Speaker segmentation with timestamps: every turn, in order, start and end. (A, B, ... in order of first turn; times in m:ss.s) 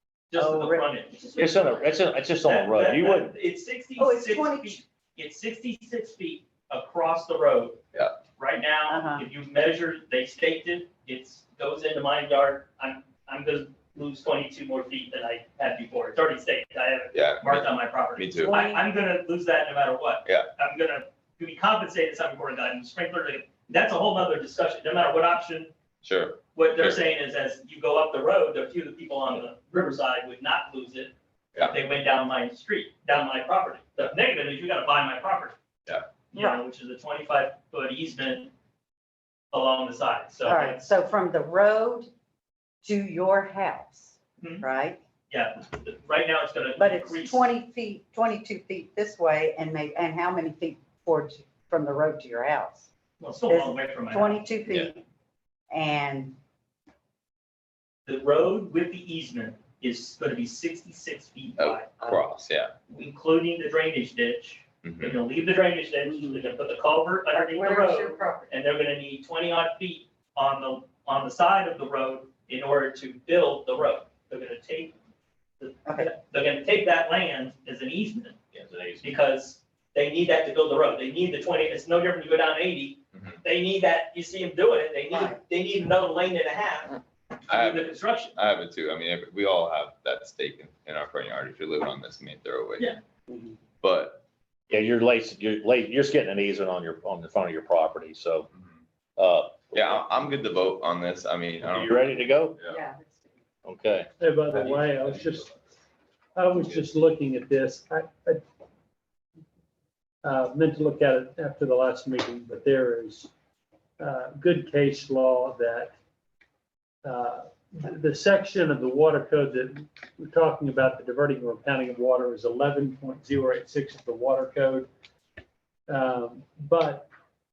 0:00.3-0:07.8 A
0:00.4-0:00.9 B
0:01.4-0:03.3 C
0:04.0-0:04.8 B
0:08.4-0:25.7 A
0:08.9-0:09.2 B
0:17.1-0:18.6 D
0:18.4-0:18.8 B
0:26.0-0:27.0 D
0:26.5-0:35.5 A
0:36.3-0:38.5 A
0:36.3-0:36.6 B
0:39.5-0:40.8 A
0:40.4-0:42.1 B
0:42.8-0:45.0 B
0:44.4-0:44.6 A
0:45.3-0:47.4 A
0:46.8-0:52.9 B
0:53.2-0:54.4 A
0:53.5-0:55.0 B
0:55.7-0:56.4 B
0:58.1-1:02.0 A
1:01.6-1:02.7 D
1:02.9-1:14.9 A
1:04.8-1:05.2 D
1:07.3-1:08.5 B
1:15.6-1:18.4 A
1:18.5-1:19.2 C
1:19.0-1:28.3 A
1:25.1-1:25.4 B
1:27.5-1:33.0 D
1:33.3-1:33.6 B
1:33.8-1:34.2 D
1:34.7-1:38.5 C
1:38.5-1:38.8 D
1:39.2-1:40.0 C
1:39.7-1:42.8 D
1:41.6-1:42.6 C
1:42.6-1:43.4 B
1:43.6-1:44.1 C
1:44.2-1:45.5 E
1:44.8-1:45.2 D
1:46.4-1:48.4 E
1:50.2-1:53.3 E
1:54.0-1:55.9 E
1:57.0-2:04.9 E
2:05.9-2:07.1 E